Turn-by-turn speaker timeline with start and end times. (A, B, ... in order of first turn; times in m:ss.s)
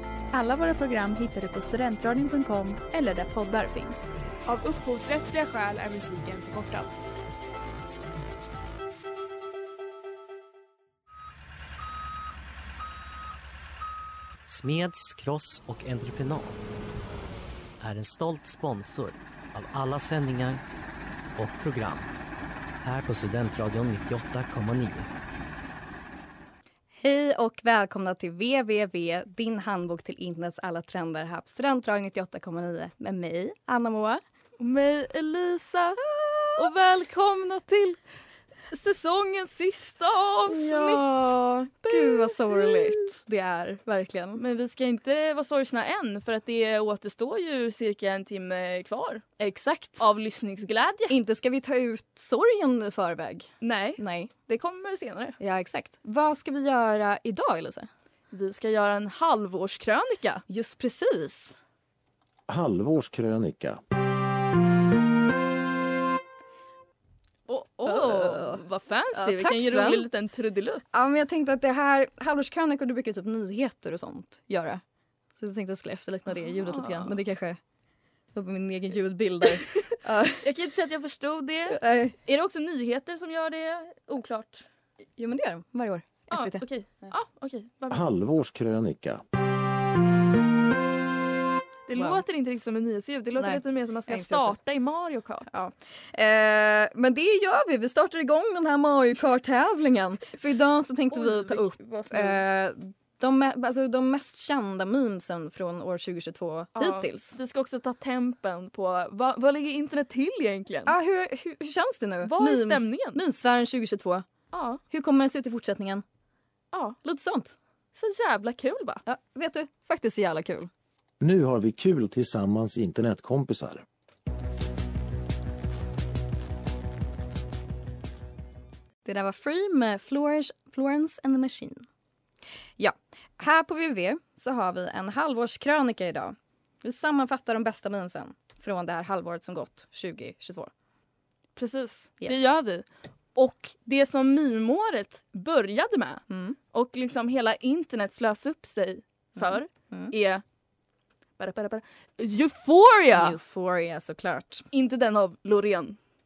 0:00.3-0:04.1 A
0:04.4-0:06.9 B
0:14.5-0:16.6 C
0:17.8-0:20.6 C
0:21.4-0:22.1 C
0:22.8-0:25.1 C
0:27.0-0:34.2 D
0:34.6-0:38.0 E
0:36.4-0:36.6 D
0:38.7-0:43.0 E
0:40.5-0:44.4 D
0:44.4-0:49.3 E
0:49.4-0:50.0 D
0:50.0-0:51.2 E
0:51.1-0:54.3 D
0:53.6-0:55.4 E
0:55.4-0:57.9 D
0:58.3-1:00.4 E
1:00.5-1:01.6 D
1:02.5-1:03.8 F
1:07.5-1:10.9 E
1:07.8-1:10.1 D
1:10.9-1:14.8 D
1:15.4-1:17.6 D
1:16.3-1:17.2 E
1:18.3-1:20.4 D
1:20.4-1:24.6 E
1:21.7-1:22.2 D
1:25.2-1:27.1 D
1:26.3-1:28.0 E
1:27.9-1:29.2 F
1:31.9-1:35.5 E
1:31.9-1:32.2 D
1:33.4-1:34.6 D
1:35.5-1:47.4 D
1:41.1-1:42.4 E
1:46.8-1:50.9 E
1:50.9-1:54.2 D
1:52.2-1:53.2 E
1:54.5-1:54.8 E
1:54.9-1:56.0 D
1:56.7-1:57.0 E
1:57.0-1:57.5 D
1:57.9-1:59.0 E
1:59.0-2:00.7 D
2:01.2-2:03.8 F
2:09.0-2:11.8 D
2:12.8-2:20.7 D
2:21.6-2:30.4 E
2:22.2-2:22.5 D
2:26.3-2:26.6 D
2:29.4-2:30.1 D
2:31.4-2:33.3 E
2:33.1-2:34.6 D
2:34.7-2:36.0 E